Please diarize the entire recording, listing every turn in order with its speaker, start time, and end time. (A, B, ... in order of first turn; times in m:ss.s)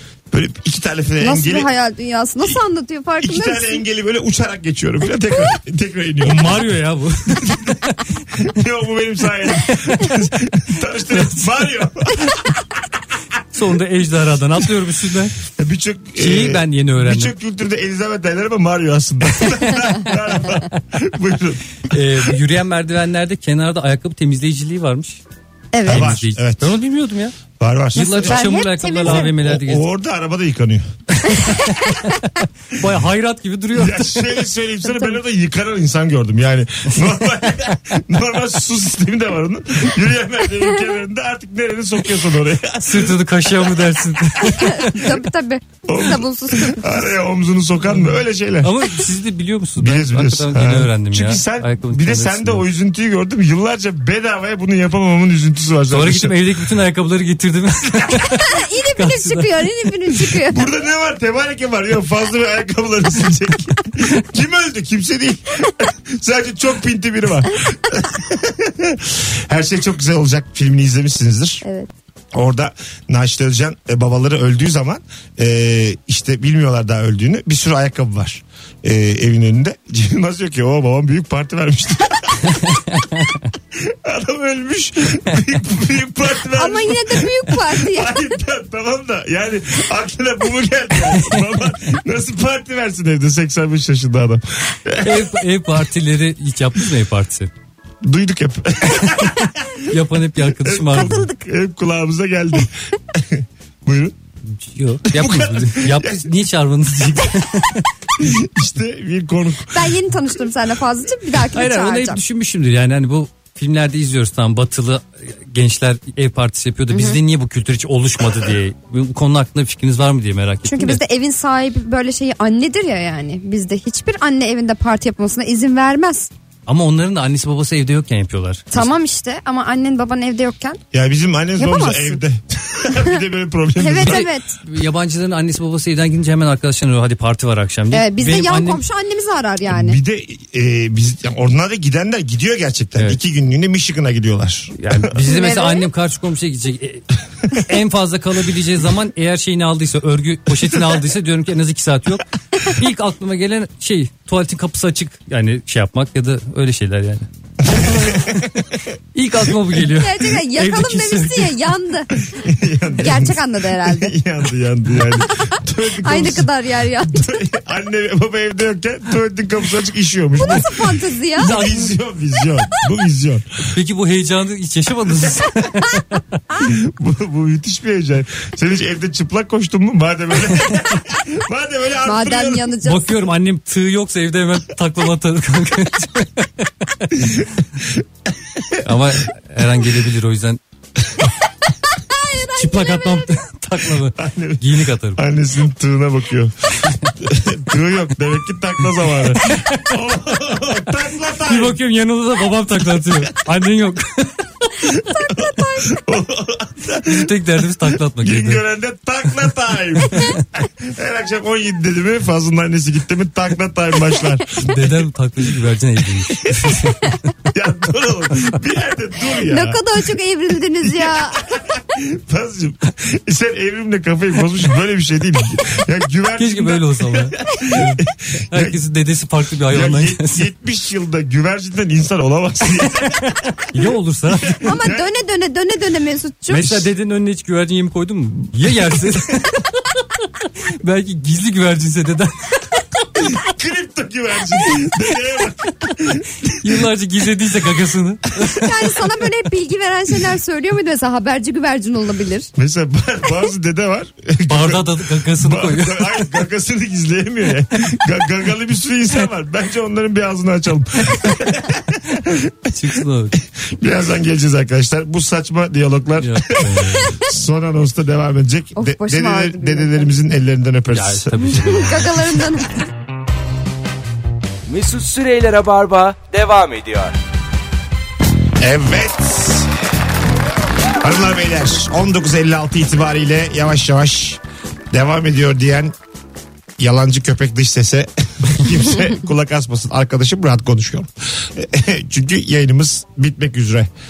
0:00.3-0:01.7 A
0:01.2-0:03.8 B
0:03.2-0:06.6 A
0:06.2-0:08.5 C
0:07.3-0:07.8 A
0:08.3-0:12.6 A
0:09.7-0:10.1 C
0:11.1-0:11.5 C
0:13.5-0:15.4 C
0:15.5-0:22.3 A
0:16.2-0:17.3 C
0:21.9-0:25.2 C
0:25.7-0:26.1 B
0:25.8-0:27.4 C
0:25.8-0:26.8 A
0:27.6-0:28.5 A
0:27.9-0:29.8 C
0:28.0-0:29.3 B
0:29.0-0:30.9 A
0:31.2-0:34.3 C
0:31.3-0:32.0 B
0:33.7-0:44.6 A
0:42.8-0:45.2 C
0:44.5-0:47.1 B
0:45.9-0:48.8 A
0:47.8-0:52.6 C
0:49.8-0:56.4 A
0:55.9-0:59.5 C
0:58.3-1:00.7 B
1:00.4-1:11.6 A
1:11.6-1:11.9 B
1:12.3-1:22.8 A
1:22.6-1:23.4 C
1:23.7-1:35.4 A
1:26.5-1:28.3 B
1:31.1-1:31.4 C
1:35.0-1:37.5 C
1:38.0-1:40.0 A
1:39.8-1:41.2 C
1:40.6-1:44.2 A
1:40.9-1:41.4 B
1:44.5-1:47.9 C
1:45.1-1:46.3 A
1:48.2-1:50.0 A
1:49.7-1:52.2 B
1:51.5-2:01.0 C
1:56.9-1:57.2 B
2:00.7-2:06.3 B
2:06.7-2:08.9 C
2:08.7-2:10.8 B
2:10.9-2:14.3 A
2:11.6-2:12.2 B
2:13.8-2:14.6 B
2:14.0-2:18.8 C
2:17.9-2:20.0 B
2:19.7-2:25.1 A
2:24.8-2:41.6 C
2:25.2-2:25.9 B
2:37.8-2:38.4 A
2:39.9-2:42.1 B
2:42.3-2:46.5 A
2:43.0-2:44.1 B
2:46.0-2:47.4 B
2:47.0-2:53.7 A
2:50.4-2:51.6 B
2:51.4-2:52.0 C
2:53.7-2:56.2 C
2:56.6-3:02.7 A
3:02.0-3:03.1 B
3:02.8-3:07.1 C
3:07.2-3:08.9 A
3:08.8-3:10.6 C
3:12.0-3:13.4 B
3:12.6-3:15.2 C
3:14.2-3:21.8 A
3:16.8-3:17.1 C
3:19.3-3:20.0 C
3:21.4-3:24.7 C
3:24.8-3:26.1 B
3:25.2-3:27.3 A
3:27.0-3:28.6 C
3:28.2-3:35.0 A
3:34.6-3:37.3 C
3:36.3-3:36.9 A
3:37.5-3:39.8 A
3:39.4-3:41.5 B
3:40.8-3:48.8 A
3:46.4-3:50.5 C
3:49.7-3:53.8 A
3:53.6-3:54.6 C
3:54.4-3:55.1 A
3:54.6-3:56.8 B
3:56.5-4:03.3 C
4:03.2-4:06.8 A
4:06.5-4:08.6 C
4:08.4-4:08.8 A
4:08.5-4:12.5 B
4:12.6-4:31.6 A
4:14.5-4:16.2 C
4:22.7-4:23.4 C
4:26.2-4:27.2 C
4:28.8-4:30.1 B
4:30.9-4:32.5 C
4:31.4-4:32.8 B
4:34.7-4:37.1 D
4:38.6-4:39.7 A
4:41.0-4:45.9 A
4:46.8-4:53.9 A